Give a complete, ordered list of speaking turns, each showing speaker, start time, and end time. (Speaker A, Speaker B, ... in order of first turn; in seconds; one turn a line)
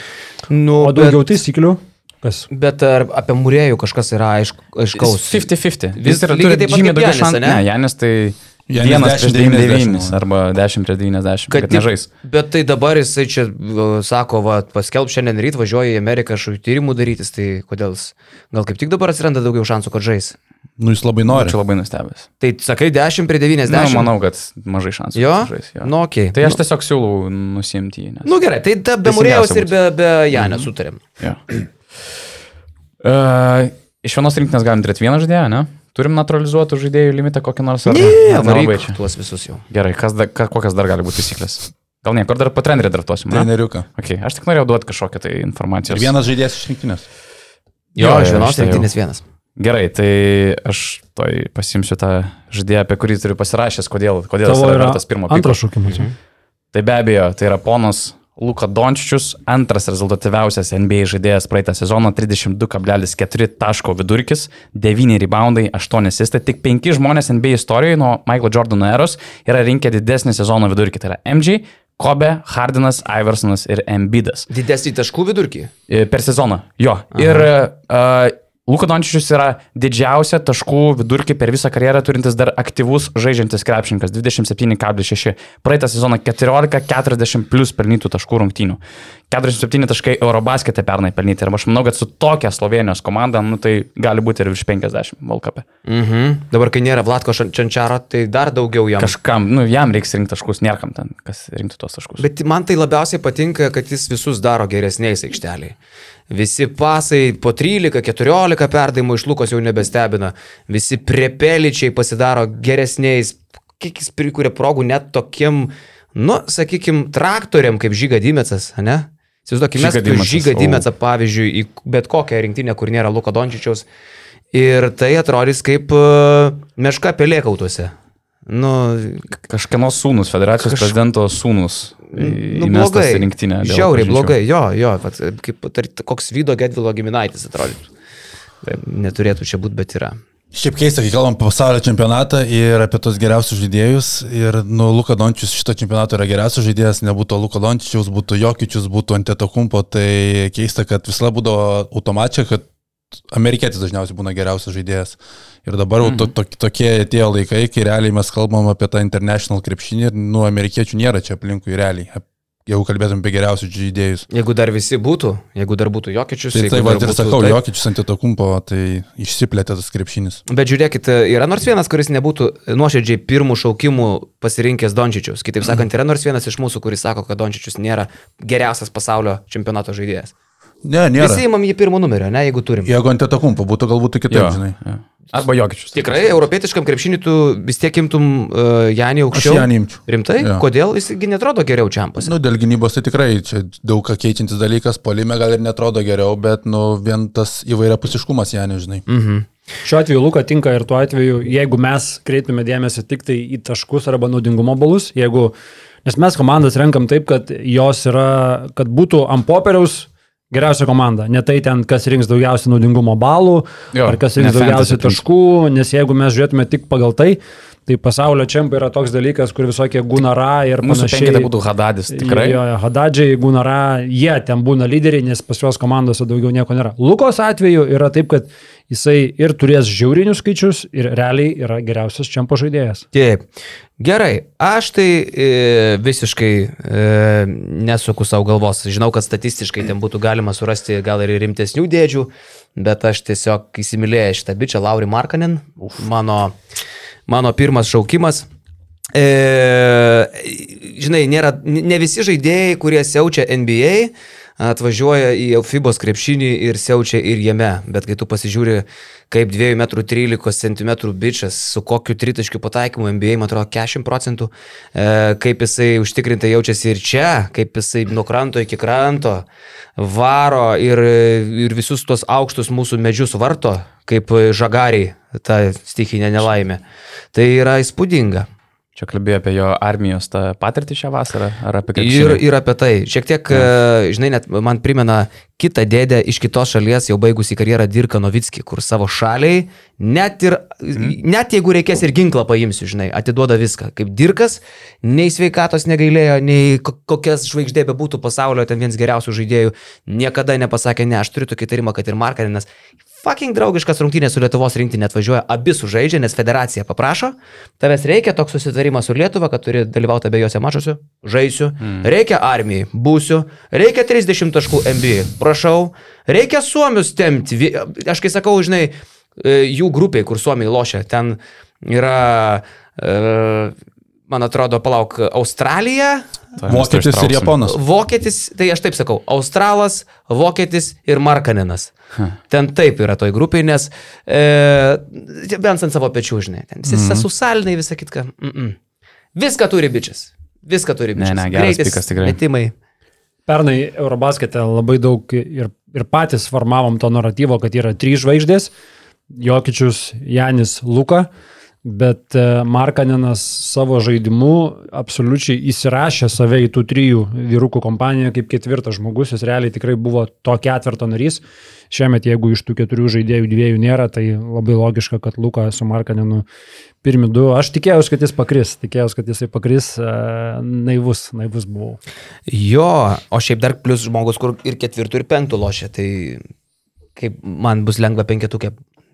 Speaker A: 0.5-1.4
Speaker B: 0.8-2.5
Speaker A: 2.5-5.5
Speaker C: 5.0-12.1
Speaker A: 6.0-7.6
Speaker D: 8.7-10.2
Speaker A: 11.5-20.4
Speaker D: 20.8-21.6
Speaker C: 21.3-22.3
Speaker A: 22.4-24.1
Speaker C: 23.6-28.4
Speaker A: 25.1-26.6
Speaker A: 28.2-31.0
Speaker C: 29.0-29.7
Speaker C: 30.4-30.6
Speaker C: 33.0-39.0
Speaker A: 37.9-39.6
Speaker C: 39.7-46.1
Speaker D: 43.3-43.9
Speaker D: 45.9-47.0
Speaker A: 48.0-49.2
Speaker C: 48.0-48.9
Speaker C: 49.6-55.6
Speaker B: 54.4-56.1
Speaker A: 55.9-56.1
Speaker C: 56.7-74.5
Speaker A: 74.5-75.7
Speaker C: 75.9-88.8
Speaker A: 77.1-77.5
Speaker C: 89.3-95.6
Speaker A: 95.8-99.1
Speaker C: 99.0-102.3
Speaker A: 102.2-105.8
Speaker A: 106.3-123.8
Speaker C: 119.7-120.8
Speaker A: 124.5-127.9
Speaker A: 128.5-129.3
Speaker C: 129.4-134.3
Speaker A: 130.6-130.9
Speaker A: 132.2-137.9
Speaker A: 138.6-140.2
Speaker D: 140.5-152.7
Speaker D: 153.3-164.3
Speaker C: 156.0-156.3
Speaker A: 164.3-167.6
Speaker D: 166.5-170.4
Speaker A: 170.5-180.3
Speaker D: 180.8-181.4
Speaker A: 181.2-182.9
Speaker D: 182.8-184.8
Speaker C: 184.3-186.4
Speaker A: 185.9-192.3
Speaker D: 189.3-190.6
Speaker D: 192.2-199.0
Speaker A: 199.1-199.4
Speaker B: 199.8-221.5
Speaker C: 213.9-215.2
Speaker C: 220.8-222.6
Speaker B: 222.1-233.0
Speaker A: 233.1-233.4
Speaker A: 234.0-246.5
Speaker A: 247.3-248.4
Speaker A: 249.1-269.4
Speaker A: 270.0-276.8
Speaker A: 277.3-278.5
Speaker C: 278.9-282.4
Speaker A: 281.9-302.7
Speaker A: 303.2-323.7
Speaker A: 324.3-326.3
Speaker C: 326.6-327.5
Speaker D: 326.6-327.8
Speaker A: 327.6-331.9
Speaker A: 332.5-338.8
Speaker D: 336.9-337.3
Speaker A: 339.3-342.7
Speaker C: 341.1-342.4
Speaker B: 343.5-348.7
Speaker B: 349.3-351.3
Speaker B: 351.8-366.4
Speaker B: 367.0-372.0
Speaker A: 372.5-376.4
Speaker A: 377.1-378.8